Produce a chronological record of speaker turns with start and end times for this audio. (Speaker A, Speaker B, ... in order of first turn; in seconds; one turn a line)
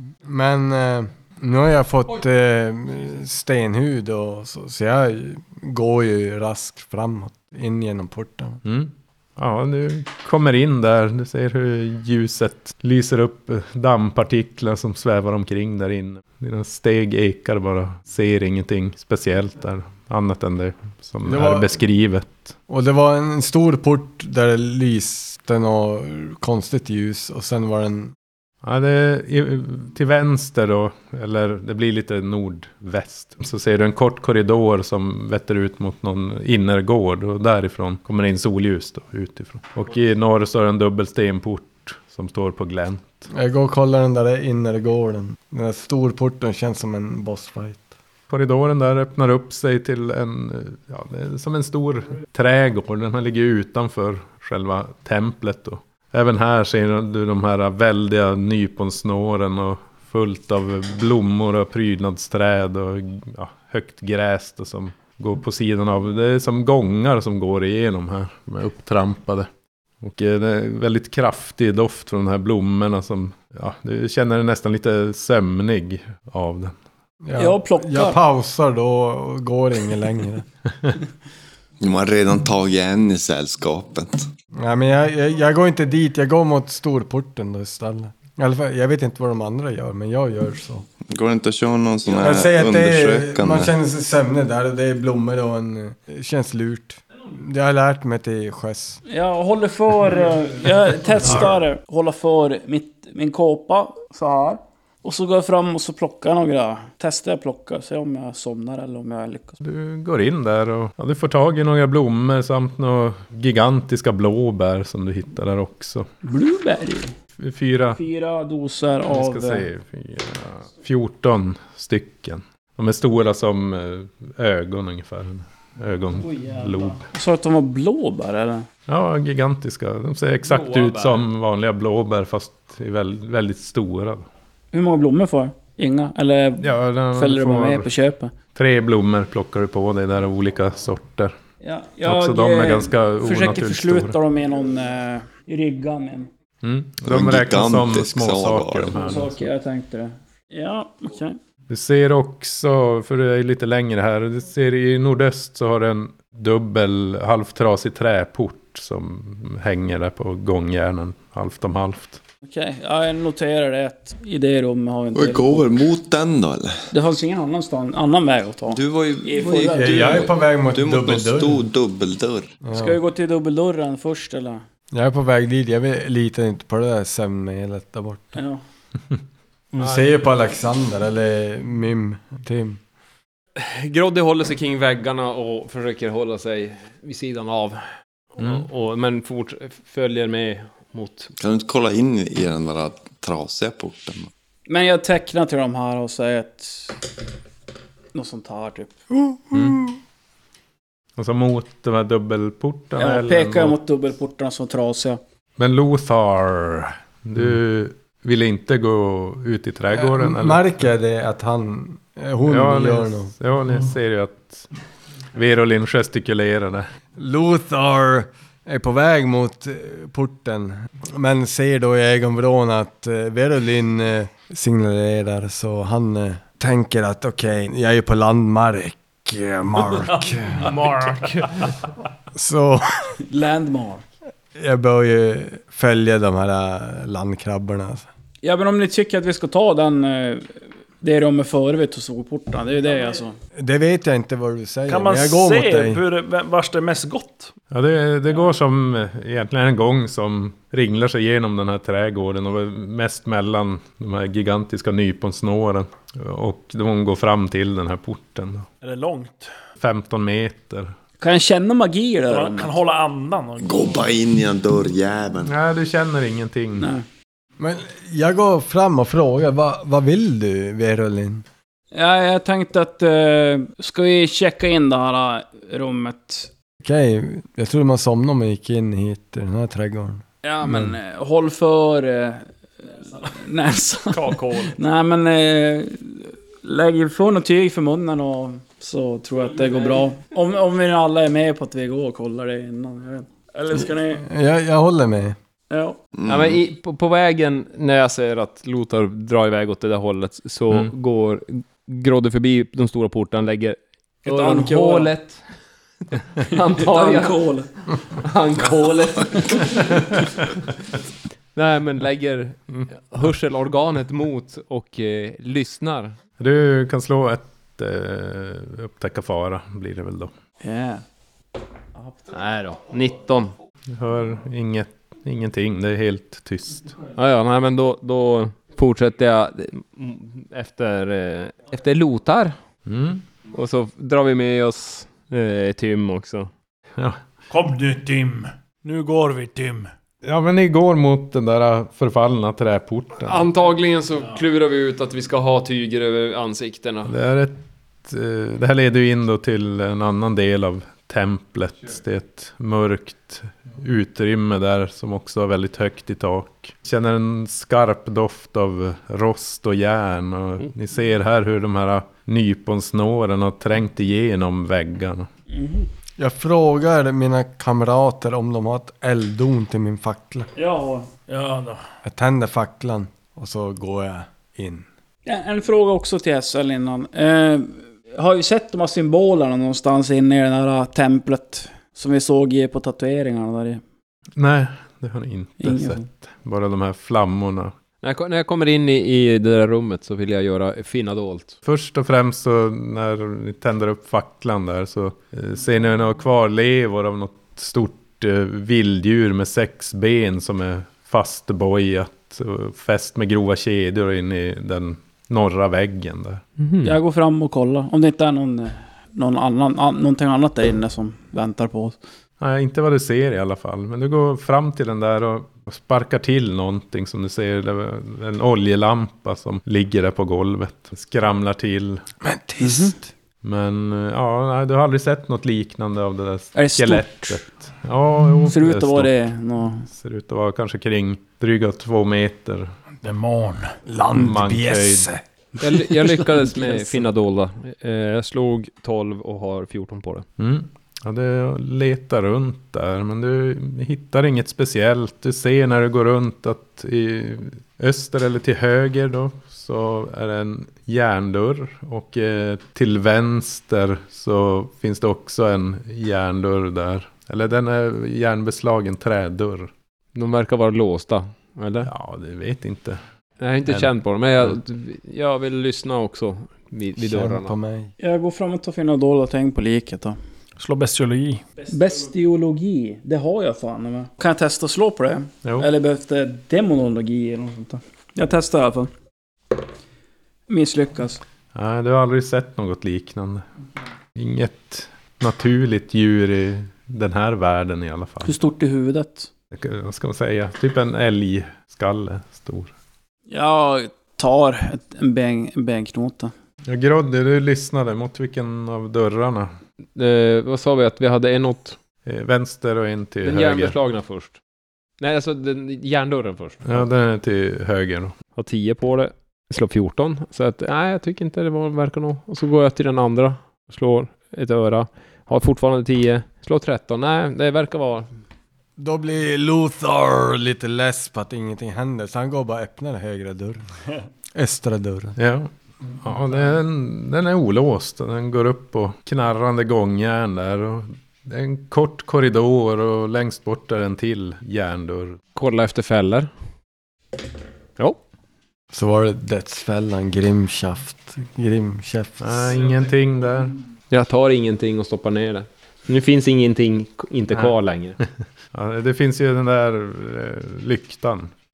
Speaker A: 0.2-8.6
Speaker B: 8.6-22.6
Speaker A: 21.2-21.8
Speaker A: 22.7-28.1
Speaker B: 28.6-43.3
Speaker A: 43.3-47.9
Speaker B: 48.3-69.5
Speaker B: 70.0-76.7
Speaker A: 77.2-80.5
Speaker C: 77.4-78.2
Speaker D: 81.8-84.3
Speaker A: 84.5-90.9
Speaker D: 91.1-93.7
Speaker A: 92.1-99.0
Speaker C: 99.1-109.6
Speaker B: 109.6-116.1
Speaker C: 116.2-117.1
Speaker B: 117.4-118.0
Speaker C: 117.9-119.7
Speaker B: 119.1-127.0
Speaker C: 126.2-128.7
Speaker B: 128.9-134.3
Speaker E: 130.4-131.2
Speaker C: 134.7-138.3
Speaker B: 136.6-137.9
Speaker B: 138.5-141.3
Speaker C: 141.6-146.3
Speaker B: 142.0-144.2
Speaker B: 146.6-149.3
Speaker D: 147.1-149.2
Speaker C: 149.0-151.4
Speaker B: 151.7-162.2
Speaker C: 162.5-165.7
Speaker D: 165.1-166.8
Speaker C: 166.9-170.3
Speaker D: 168.7-172.5
Speaker A: 169.6-171.6
Speaker A: 172.6-173.0
Speaker C: 172.7-174.6
Speaker A: 174.9-178.4
Speaker C: 178.3-178.6
Speaker A: 179.7-182.8
Speaker E: 179.8-180.1
Speaker E: 183.6-187.8
Speaker E: 188.4-191.3
Speaker B: 188.4-188.7
Speaker D: 191.4-194.3
Speaker C: 194.7-197.0
Speaker C: 198.1-198.9
Speaker B: 199.5-199.8
Speaker B: 201.2-203.8
Speaker C: 203.0-205.2
Speaker B: 205.6-210.7
Speaker A: 209.9-213.3
Speaker B: 212.5-214.7
Speaker B: 215.3-216.9
Speaker A: 217.2-230.7
Speaker F: 230.1-231.5
Speaker A: 232.3-233.1
Speaker C: 233.3-234.0
Speaker A: 234.6-238.1
Speaker C: 238.4-243.3
Speaker A: 243.5-246.0
Speaker F: 244.9-247.5
Speaker B: 247.7-258.7
Speaker F: 258.8-259.5
Speaker B: 259.8-260.9
Speaker C: 261.2-262.7
Speaker F: 262.3-264.0
Speaker D: 263.6-265.5
Speaker B: 265.4-266.9
Speaker C: 266.8-267.0
Speaker A: 267.6-271.4
Speaker C: 271.9-276.5
Speaker A: 276.8-280.9
Speaker C: 280.4-294.2
Speaker E: 284.1-284.8
Speaker A: 294.1-295.4
Speaker C: 295.7-296.0
Speaker D: 296.2-296.6
Speaker E: 296.3-305.4
Speaker C: 304.2-305.1
Speaker E: 306.4-307.4
Speaker C: 306.5-307.7
Speaker E: 308.1-310.0
Speaker E: 311.5-316.1
Speaker B: 316.4-320.3
Speaker C: 320.6-321.0
Speaker E: 322.3-323.5
Speaker B: 323.9-327.0
Speaker E: 327.1-332.6
Speaker B: 332.9-333.2
Speaker E: 333.5-336.5
Speaker F: 337.5-339.9
Speaker B: 340.2-343.4
Speaker E: 343.2-347.1
Speaker B: 347.1-365.3
Speaker C: 365.5-365.9
Speaker A: 366.2-370.5
Speaker C: 370.6-371.1
Speaker F: 371.3-371.8
Speaker A: 372.0-374.9
Speaker C: 375.2-383.8
Speaker B: 384.4-387.7
Speaker C: 385.6-386.0
Speaker E: 388.0-391.6
Speaker B: 391.6-406.4
Speaker E: 406.6-407.0
Speaker C: 406.8-412.0
Speaker B: 412.4-422.0
Speaker A: 422.2-423.1
Speaker C: 422.6-422.9
Speaker B: 423.4-429.1
Speaker C: 426.5-427.4
Speaker C: 428.5-429.9
Speaker B: 429.9-432.7
Speaker F: 433.0-433.8
Speaker A: 433.9-435.2
Speaker B: 434.1-435.1
Speaker E: 435.6-440.2
Speaker B: 440.4-459.7
Speaker E: 460.1-461.9
Speaker B: 461.8-463.0
Speaker E: 463.4-467.5
Speaker B: 463.6-464.6
Speaker A: 467.0-467.9
Speaker C: 468.0-470.2
Speaker F: 470.6-471.7
Speaker C: 471.7-478.9
Speaker C: 480.5-481.2
Speaker B: 481.5-483.4
Speaker B: 484.1-488.3
Speaker C: 488.2-489.3
Speaker B: 489.5-492.7
Speaker C: 493.3-496.3
Speaker B: 496.6-499.5
Speaker E: 499.9-501.8
Speaker B: 502.0-503.8
Speaker E: 503.2-504.4
Speaker E: 505.0-506.8
Speaker B: 506.6-508.2
Speaker E: 508.3-518.1
Speaker A: 518.8-523.6
Speaker A: 524.3-525.1
Speaker B: 525.2-535.2
Speaker E: 535.3-536.3
Speaker A: 538.7-542.5
Speaker B: 542.2-543.5
Speaker E: 543.9-548.0
Speaker B: 548.5-551.3